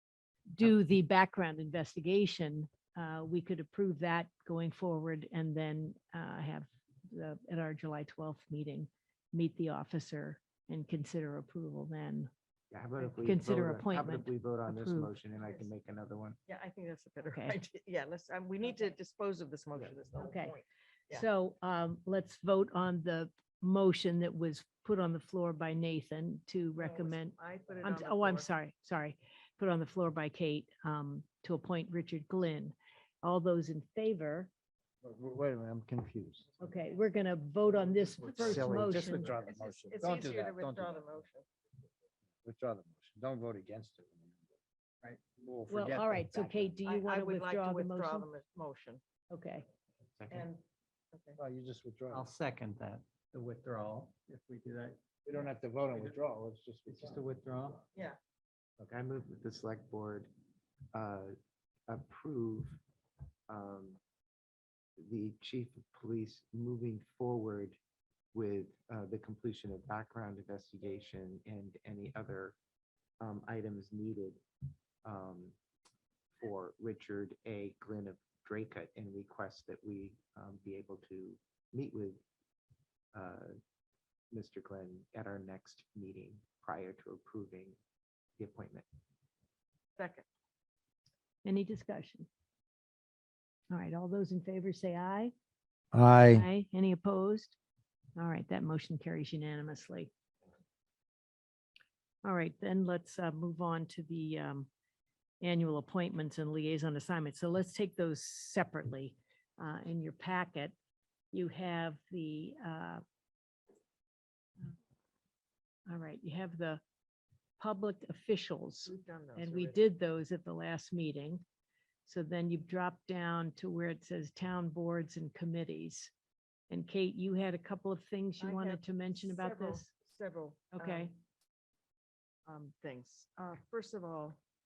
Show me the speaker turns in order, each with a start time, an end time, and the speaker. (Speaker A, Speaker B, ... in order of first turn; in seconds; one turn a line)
Speaker A: 0.5-12.3
Speaker B: 12.7-16.4
Speaker A: 13.2-15.1
Speaker C: 15.4-15.7
Speaker C: 16.5-21.3
Speaker A: 17.2-17.6
Speaker A: 20.2-20.6
Speaker A: 21.1-34.5
Speaker C: 26.8-28.5
Speaker D: 35.0-36.6
Speaker A: 36.6-39.3
Speaker C: 36.6-37.0
Speaker C: 37.9-38.6
Speaker D: 38.4-41.2
Speaker C: 39.1-41.5
Speaker E: 39.2-39.5
Speaker D: 42.4-44.6
Speaker D: 45.3-46.7
Speaker A: 45.7-48.3
Speaker C: 46.9-49.0
Speaker A: 49.3-49.7
Speaker B: 50.2-50.5
Speaker C: 50.3-51.4
Speaker D: 51.4-52.3
Speaker E: 52.1-55.0
Speaker D: 55.2-57.3
Speaker E: 55.9-56.2
Speaker E: 56.9-57.9
Speaker C: 57.9-58.2
Speaker B: 58.9-60.3
Speaker B: 60.9-61.4
Speaker B: 61.9-62.8
Speaker B: 63.5-64.0
Speaker B: 65.0-67.8
Speaker B: 68.3-72.6
Speaker B: 73.2-74.4
Speaker B: 75.0-75.6
Speaker B: 76.4-82.2
Speaker B: 83.1-83.6
Speaker B: 84.3-87.8
Speaker B: 88.4-88.9
Speaker C: 90.0-90.2
Speaker A: 91.5-92.3
Speaker A: 93.7-95.3
Speaker D: 95.9-96.5
Speaker A: 96.3-97.6
Speaker A: 98.2-100.1
Speaker A: 102.2-104.7
Speaker A: 105.4-110.7
Speaker A: 111.3-113.0
Speaker A: 115.9-116.8
Speaker A: 117.6-121.4
Speaker C: 118.8-119.8
Speaker A: 122.1-126.1
Speaker A: 126.7-129.9
Speaker C: 128.4-131.1
Speaker A: 130.7-131.1
Speaker C: 132.5-134.4